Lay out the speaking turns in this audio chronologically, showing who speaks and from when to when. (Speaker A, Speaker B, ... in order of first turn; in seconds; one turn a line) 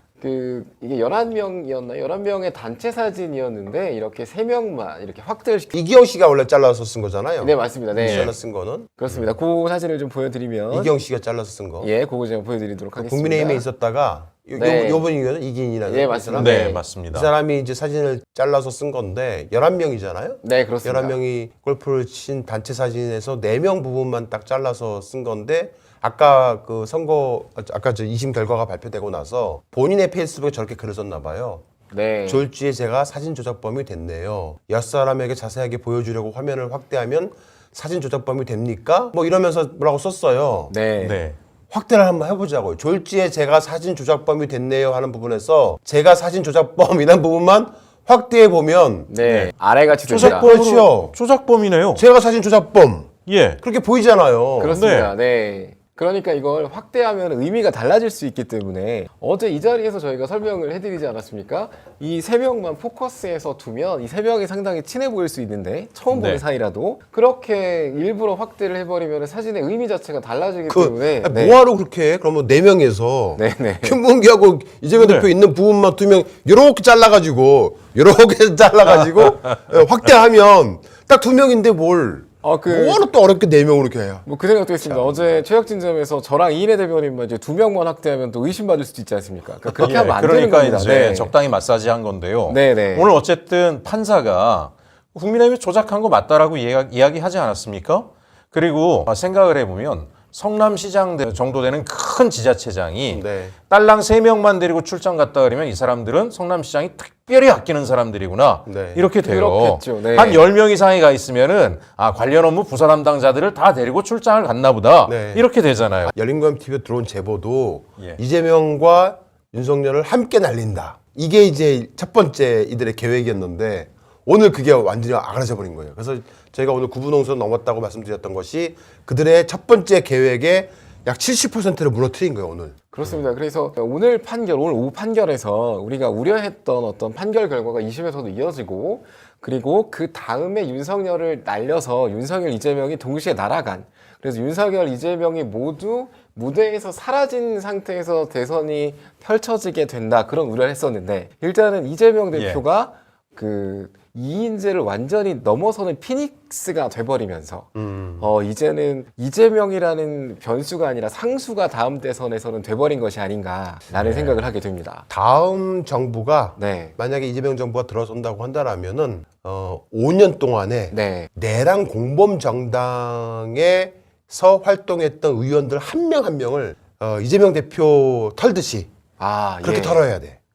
Speaker A: 0.2-5.7
Speaker B: 5.7-8.9
Speaker A: 7.4-8.3
Speaker C: 8.0-8.3
Speaker A: 9.0-10.9
Speaker B: 10.7-11.9
Speaker A: 11.8-13.7
Speaker B: 13.0-31.6
Speaker A: 14.5-15.1
Speaker A: 15.8-16.8
Speaker C: 16.3-17.3
Speaker A: 20.4-21.2
Speaker A: 31.9-32.4
Speaker B: 32.3-40.7
Speaker A: 40.7-41.2
Speaker C: 41.0-41.4
Speaker B: 41.7-49.1
Speaker A: 49.1-50.5
Speaker C: 49.2-49.5
Speaker C: 50.1-52.0
Speaker B: 50.1-51.1
Speaker B: 51.9-54.8
Speaker C: 53.2-53.6
Speaker A: 54.6-71.6
Speaker C: 54.7-55.1
Speaker C: 66.1-66.4
Speaker B: 70.7-84.2
Speaker A: 73.3-74.0
Speaker C: 75.0-75.3
Speaker C: 78.9-79.6
Speaker A: 82.4-83.1
Speaker A: 84.2-91.3
Speaker B: 84.8-85.2
Speaker C: 89.7-116.1
Speaker A: 92.5-93.1
Speaker B: 103.1-103.5
Speaker B: 108.7-109.1
Speaker A: 109.2-110.5
Speaker B: 115.0-115.5
Speaker B: 116.1-132.7
Speaker A: 132.9-165.0
Speaker C: 152.3-152.6
Speaker B: 157.7-158.3
Speaker C: 163.9-164.3
Speaker B: 165.1-178.9
Speaker A: 166.6-166.9
Speaker A: 170.9-171.3
Speaker A: 179.2-180.0
Speaker B: 179.6-180.4